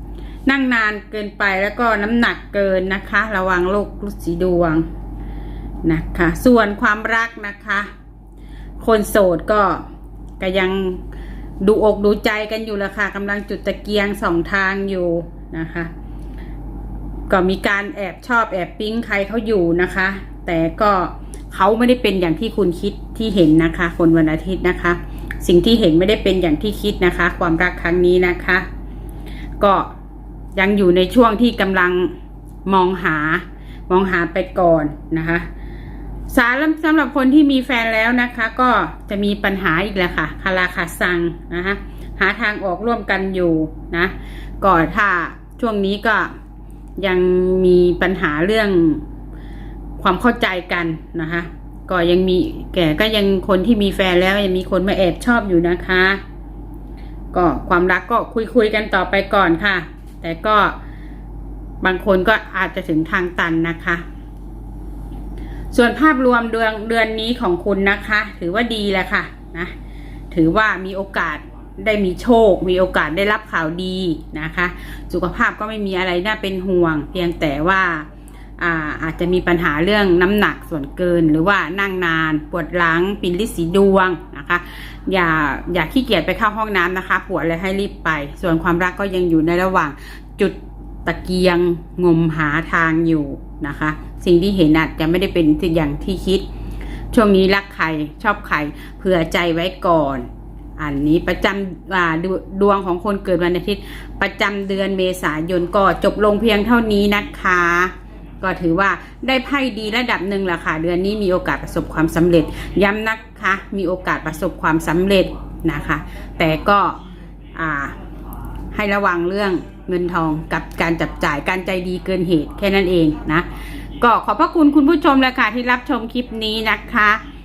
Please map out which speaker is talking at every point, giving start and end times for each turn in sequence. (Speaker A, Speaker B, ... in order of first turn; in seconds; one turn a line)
Speaker A: 0.5-4.8
Speaker A: 5.8-7.9
Speaker A: 8.8-9.8
Speaker A: 10.4-11.0
Speaker A: 11.6-15.9
Speaker A: 17.3-28.7
Speaker A: 29.6-29.9
Speaker A: 30.6-32.1
Speaker A: 32.6-35.5
Speaker A: 36.3-46.3
Speaker A: 47.0-49.0
Speaker A: 50.0-56.2
Speaker A: 57.3-60.8
Speaker A: 61.8-64.0
Speaker A: 65.7-69.7
Speaker A: 70.3-96.5
Speaker A: 97.1-117.0
Speaker A: 117.5-118.0
Speaker A: 118.7-123.5
Speaker A: 124.0-127.2